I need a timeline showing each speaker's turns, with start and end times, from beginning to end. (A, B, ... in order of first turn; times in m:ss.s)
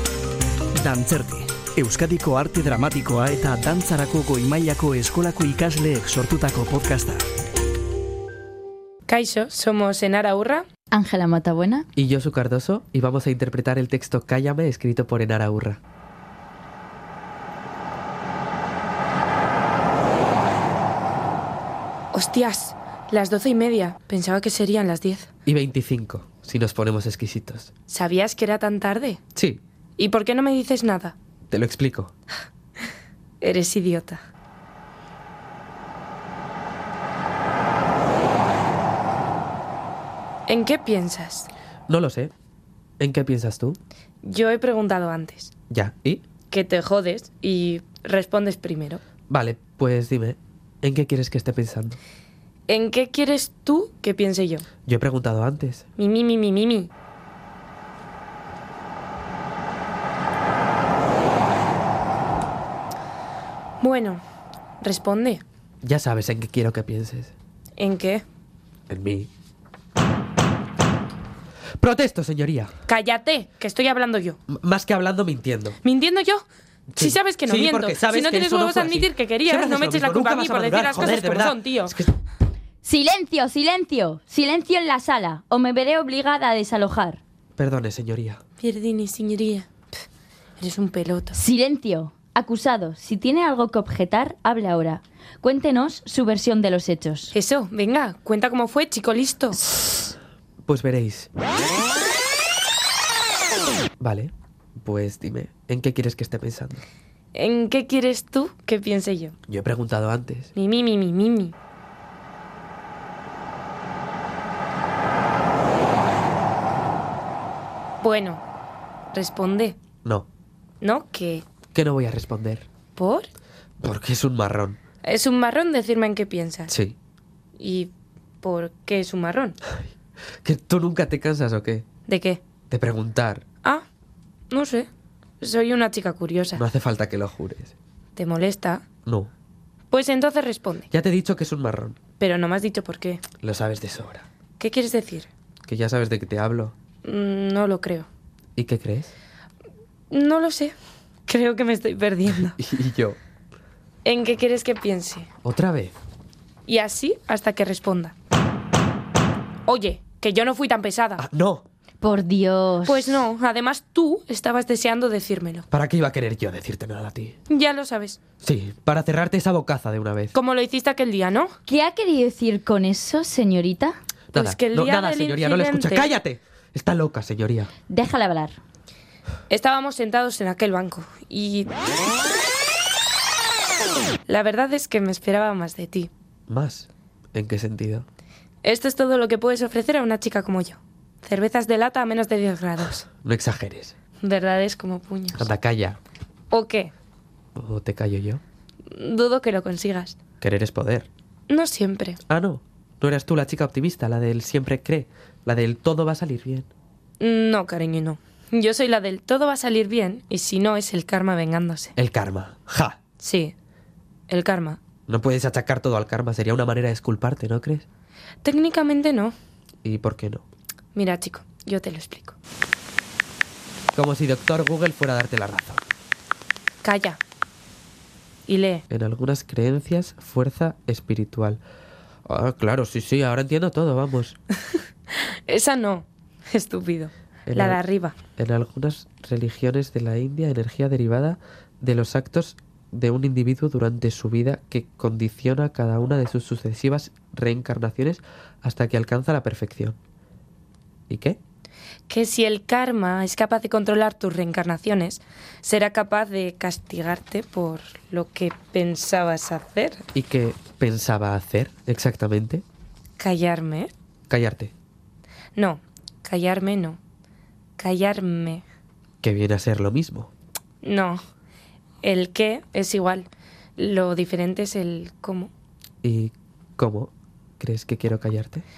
0:00.7-0:07.2 A
0:09.1-0:10.6 B
0:10.9-0:11.9 C
0:11.9-0:15.8 D
0:22.1-0:25.3 B
0:25.4-0:27.7 D
0:27.9-0:29.2 B
0:29.4-0:29.6 D
0:30.0-0:31.1 B
0:31.5-0:32.1 D
0:33.4-0:34.2 B
0:40.5-0:41.5 B
0:41.9-0:42.3 D
0:43.0-0:43.8 D
0:44.2-0:45.5 B
0:45.7-0:46.2 D
0:46.5-0:49.0 B
0:49.3-0:52.0 D
0:52.7-0:54.6 B
0:54.8-0:55.8 D
0:56.0-0:56.9 B
1:03.8-1:04.2 B
1:04.8-1:05.4 B
1:05.8-1:07.3 D
1:07.8-1:08.2 B
1:08.9-1:09.3 D
1:11.8-1:12.7 D
1:12.9-1:14.4 B
1:14.5-1:15.8 D
1:15.8-1:16.4 B
1:16.9-1:22.2 D
1:17.0-1:22.0 B
1:22.8-1:27.2 C
1:27.6-1:28.4 D
1:28.6-1:29.7 B
1:30.6-1:31.4 B
1:31.3-1:37.3 C
1:37.3-1:39.6 B
1:40.6-1:41.3 D
1:44.0-1:46.8 D
1:47.3-1:49.3 B
1:49.5-1:50.5 D
1:50.6-1:51.5 B
1:58.0-1:58.4 B
1:59.1-1:59.8 B
2:00.8-2:01.4 B
2:01.7-2:02.6 D
2:03.0-2:03.3 B
2:03.8-2:04.8 D
2:05.0-2:06.7 B
2:06.7-2:07.0 D
2:07.6-2:09.6 B
2:10.4-2:11.8 D
2:12.1-2:12.4 B
2:12.7-2:13.4 D
2:14.5-2:14.9 B
2:15.4-2:16.6 B
2:16.6-2:17.7 D
2:18.2-2:18.8 B
2:19.0-2:19.3 D
2:19.9-2:20.9 B
2:20.9-2:22.0 D
2:22.2-2:23.2 B
2:23.4-2:24.2 D
2:24.6-2:25.3 B
2:25.6-2:26.7 D
2:27.0-2:28.1 B
2:28.6-2:29.1 D
2:30.1-2:30.7 B
2:31.3-2:32.6 B
2:32.6-2:33.2 D
2:34.0-2:35.3 B
2:35.4-2:35.9 D
2:36.7-2:38.1 B
2:39.7-2:41.2 B
2:41.2-2:41.6 D
2:42.0-2:43.2 C
2:42.8-2:45.6 B
2:45.7-2:47.4 D
2:47.5-2:48.2 B
2:48.4-2:50.3 D
2:50.3-2:51.5 B
2:51.7-2:54.0 C
2:54.3-2:57.7 D
2:54.3-2:56.1 B
2:57.9-2:58.6 C
2:59.5-3:01.7 B
3:04.2-3:06.1 B
3:06.5-3:08.0 D
3:08.6-3:13.1 B
3:13.2-3:13.9 D
3:14.2-3:15.4 B
3:15.4-3:16.0 D
3:16.5-3:16.9 B
3:17.5-3:18.4 D
3:18.9-3:20.2 B
3:20.4-3:21.1 D
3:21.5-3:22.2 B
3:22.3-3:26.7 D
3:27.2-3:31.9 B
3:32.0-3:33.0 D
3:33.2-3:33.5 B
3:34.3-3:34.8 B
3:35.1-3:37.8 D
3:38.4-3:39.3 B
3:39.8-3:40.4 D
3:40.9-3:42.4 B
3:43.9-3:45.8 D
3:46.8-3:47.2 B
3:48.5-3:48.8 B
3:48.9-3:51.6 D
3:52.2-3:54.4 D
3:55.1-3:58.2 B
3:57.5-3:57.8 D
3:58.4-4:10.0 D
4:11.1-4:11.4 D
4:12.1-4:20.0 B
4:20.1-4:22.6 D
4:23.2-4:23.9 B
4:24.3-4:24.7 D
4:25.6-4:27.0 B
4:27.8-4:28.6 B
4:29.2-4:30.3 D
4:30.8-4:31.2 B
4:32.0-4:35.5 B
4:36.0-4:38.6 D